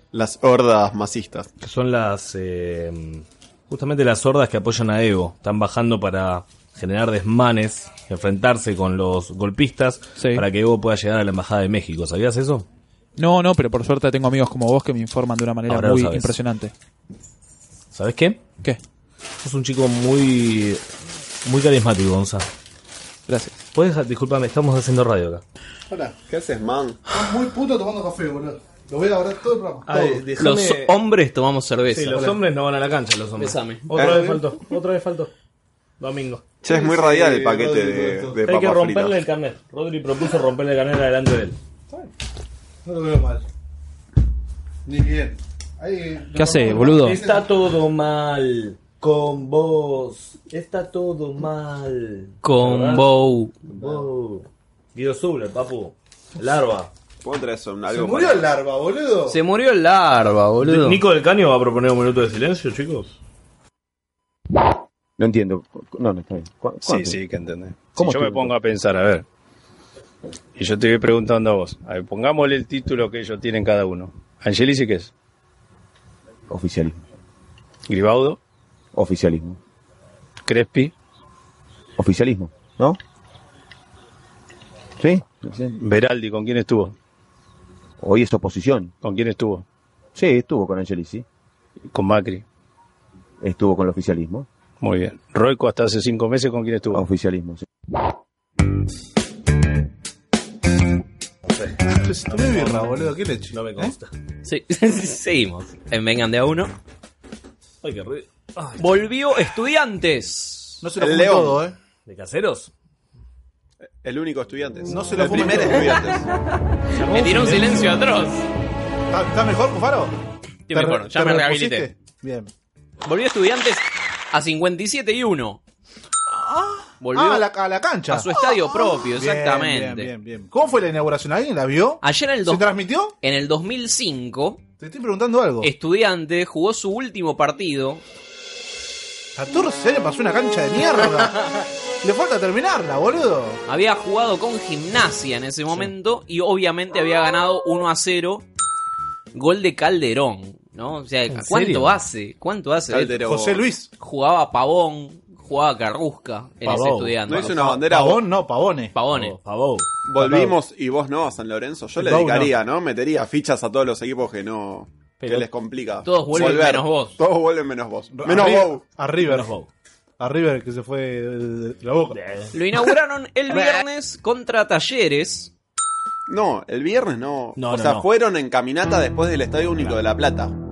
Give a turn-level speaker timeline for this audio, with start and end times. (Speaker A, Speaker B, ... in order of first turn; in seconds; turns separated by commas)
Speaker A: 0.1-1.5, Speaker B: 1.6-12.7, Speaker C: 10.2-10.4, Speaker C: 13.2-16.7, Speaker B: 15.7-16.3, Speaker B: 17.9-18.4, Speaker B: 19.4-20.8, Speaker B: 21.4-22.4, Speaker C: 23.3-23.5, Speaker B: 23.7-25.4, Speaker D: 25.9-26.1, Speaker A: 26.3-27.0, Speaker D: 27.1-30.2, Speaker B: 29.9-30.9, Speaker E: 30.4-32.3, Speaker B: 31.9-35.3, Speaker D: 32.1-32.4, Speaker E: 33.4-33.9, Speaker D: 33.9-34.4, Speaker B: 36.0-36.4, Speaker A: 36.6-39.2, Speaker D: 36.7-38.4, Speaker B: 38.4-41.6, Speaker D: 42.8-43.5, Speaker D: 44.9-47.5, Speaker C: 46.4-47.2, Speaker B: 47.0-53.1, Speaker E: 52.4-53.5, Speaker B: 53.7-56.9, Speaker D: 53.8-54.1, Speaker A: 57.2-58.5, Speaker D: 57.9-59.4, Speaker E: 59.3-61.0, Speaker B: 60.6-63.2, Speaker F: 65.2-67.2, Speaker G: 66.8-69.2, Speaker F: 68.0-68.5, Speaker G: 70.6-75.1, Speaker F: 76.5-77.0, Speaker G: 77.9-78.4, Speaker F: 78.9-79.6, Speaker G: 80.5-80.9, Speaker F: 82.0-83.0, Speaker F: 85.0-85.8, Speaker G: 85.8-86.9, Speaker F: 88.0-88.9, Speaker G: 89.0-89.6, Speaker F: 90.1-91.2, Speaker G: 91.9-92.4, Speaker F: 93.4-94.5, Speaker G: 94.8-97.0, Speaker F: 96.9-97.6, Speaker D: 101.9-104.0, Speaker B: 102.3-104.1, Speaker E: 104.4-106.7, Speaker B: 107.8-108.8, Speaker E: 108.8-110.8, Speaker D: 110.8-111.7, Speaker A: 111.0-111.6, Speaker B: 112.0-112.7, Speaker A: 114.0-116.2, Speaker D: 114.9-116.0, Speaker E: 117.0-118.4, Speaker D: 117.1-118.0, Speaker B: 117.3-117.8, Speaker D: 119.1-120.1, Speaker E: 120.7-121.9, Speaker D: 120.7-122.5, Speaker E: 123.0-125.6, Speaker D: 126.3-133.1, Speaker E: 127.0-127.5, Speaker E: 128.1-130.1, Speaker E: 132.0-132.7, Speaker E: 133.2-134.6, Speaker D: 134.8-135.7, Speaker E: 135.6-138.0, Speaker D: 139.3-141.4, Speaker D: 142.0-143.6, Speaker E: 143.7-148.4, Speaker E: 149.3-153.2, Speaker B: 151.3-151.9, Speaker A: 152.9-153.6, Speaker D: 153.2-153.9, Speaker E: 154.0-157.8, Speaker B: 156.6-157.2, Speaker A: 157.3-158.2, Speaker D: 157.6-158.9, Speaker E: 158.9-159.3, Speaker B: 159.1-159.9, Speaker A: 160.1-168.8, Speaker D: 160.2-160.6, Speaker D: 162.0-162.5, Speaker B: 165.2-165.5, Speaker E: 166.0-167.2, Speaker D: 168.1-169.5, Speaker B: 169.2-169.7, Speaker D: 170.2-172.2, Speaker B: 172.1-172.5, Speaker E: 172.5-175.5, Speaker A: 176.3-180.5, Speaker B: 177.6-178.1